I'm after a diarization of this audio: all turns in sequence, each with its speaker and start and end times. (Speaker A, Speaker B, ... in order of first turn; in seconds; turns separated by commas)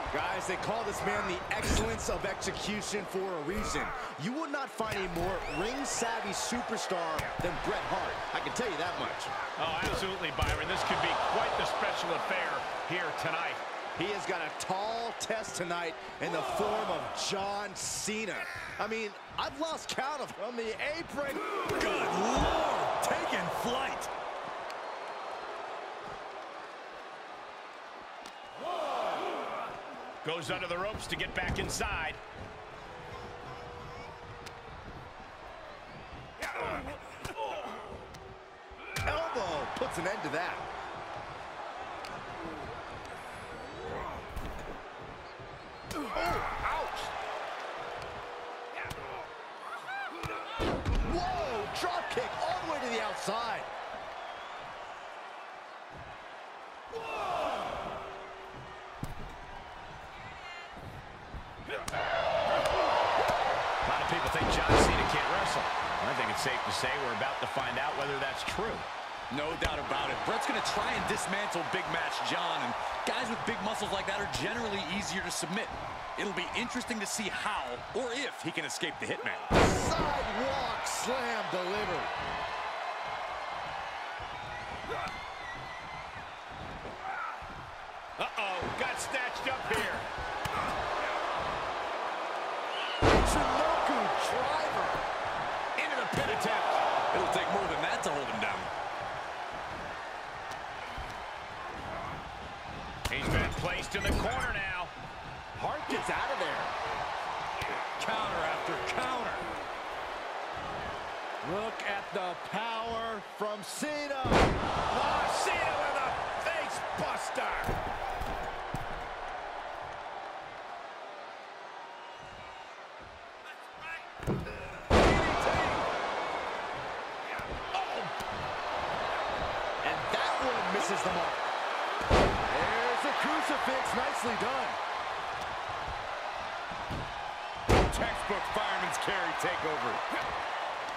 Speaker A: 0.1-9.3, Speaker B: 9.6-13.6, Speaker A: 14.0-21.7, Speaker C: 21.7-24.1, Speaker B: 30.2-32.2, Speaker A: 39.0-40.7, Speaker A: 46.1-47.1, Speaker A: 51.0-53.7, Speaker B: 63.8-68.9, Speaker C: 69.3-79.5, Speaker A: 79.5-82.1, Speaker B: 88.2-90.1, Speaker A: 93.0-95.1, Speaker B: 95.8-96.8, Speaker C: 97.1-98.7, Speaker B: 103.1-104.9, Speaker A: 105.6-106.7, Speaker C: 108.0-109.5, Speaker A: 111.4-114.6, Speaker B: 114.9-117.8, Speaker A: 124.9-125.9, Speaker B: 127.7-128.1, Speaker A: 129.8-131.5, Speaker A: 132.5-134.8, Speaker C: 137.9-140.0